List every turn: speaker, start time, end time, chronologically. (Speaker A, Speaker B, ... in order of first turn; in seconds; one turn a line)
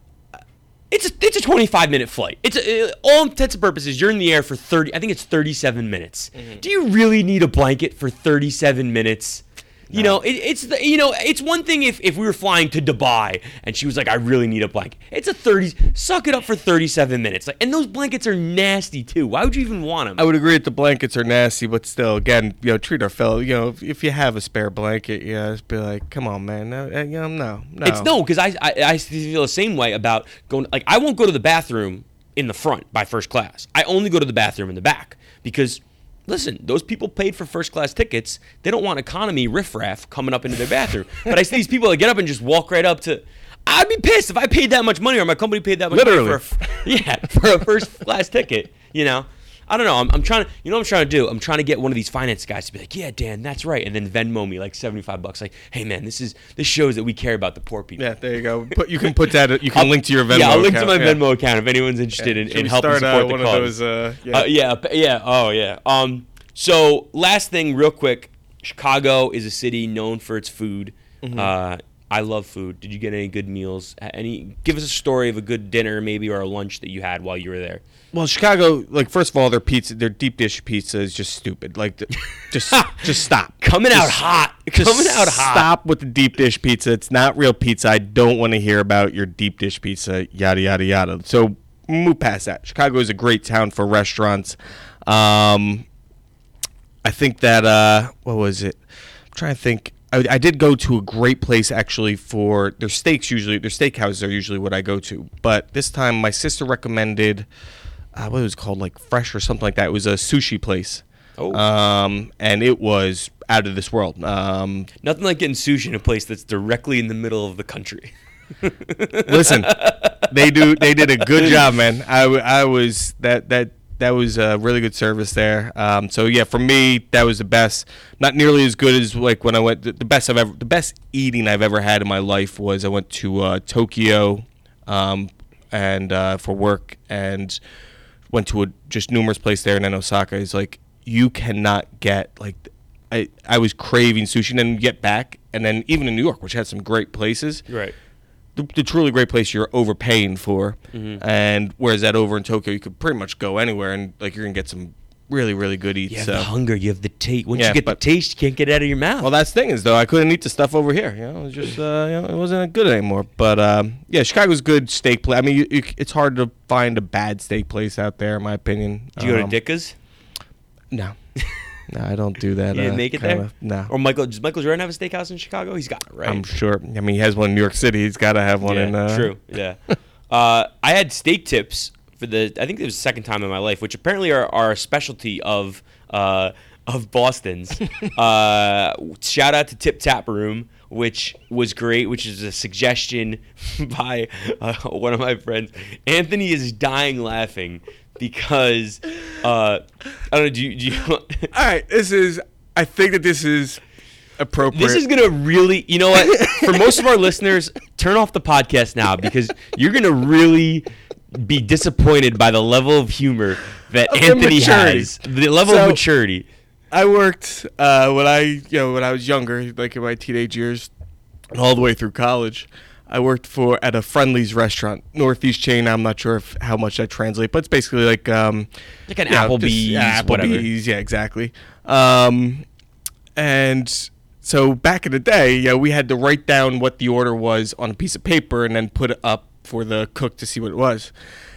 Speaker A: 0.9-20.2
Speaker B: 6.4-6.6
Speaker B: 9.9-10.2
Speaker B: 20.2-28.1
Speaker A: 27.8-58.1
Speaker B: 45.9-46.9
Speaker B: 58.0-61.2
Speaker A: 59.7-63.7
Speaker B: 62.2-64.5
Speaker A: 64.3-77.8
Speaker B: 71.2-71.5
Speaker B: 78.1-94.5
Speaker A: 82.7-83.1
Speaker A: 83.6-85.7
Speaker B: 95.1-95.8
Speaker B: 97.0-98.8
Speaker B: 99.3-107.5
Speaker B: 108.1-114.9
Speaker A: 115.0-120.3
Speaker B: 119.2-137.6
Speaker A: 121.3-121.6
Speaker B: 138.3-147.7
Speaker A: 147.7-147.9
Speaker B: 148.6-156.5
Speaker A: 150.9-151.2
Speaker A: 156.1-159.3
Speaker B: 157.5-158.0
Speaker B: 159.2-169.5
Speaker A: 169.2-169.9
Speaker B: 170.9-171.2
Speaker A: 171.4-171.7
Speaker B: 171.9-173.9
Speaker A: 172.7-176.5
Speaker B: 176.2-179.3
Speaker A: 178.6-179.8
Speaker A: 180.3-201.5
Speaker B: 201.5-203.8
Speaker B: 204.4-205.0
Speaker A: 204.7-216.4
Speaker B: 206.2-206.9
Speaker B: 214.1-216.0
Speaker B: 216.9-220.9
Speaker B: 221.5-228.7
Speaker A: 229.1-230.7
Speaker B: 229.3-232.6
Speaker B: 233.4-241.1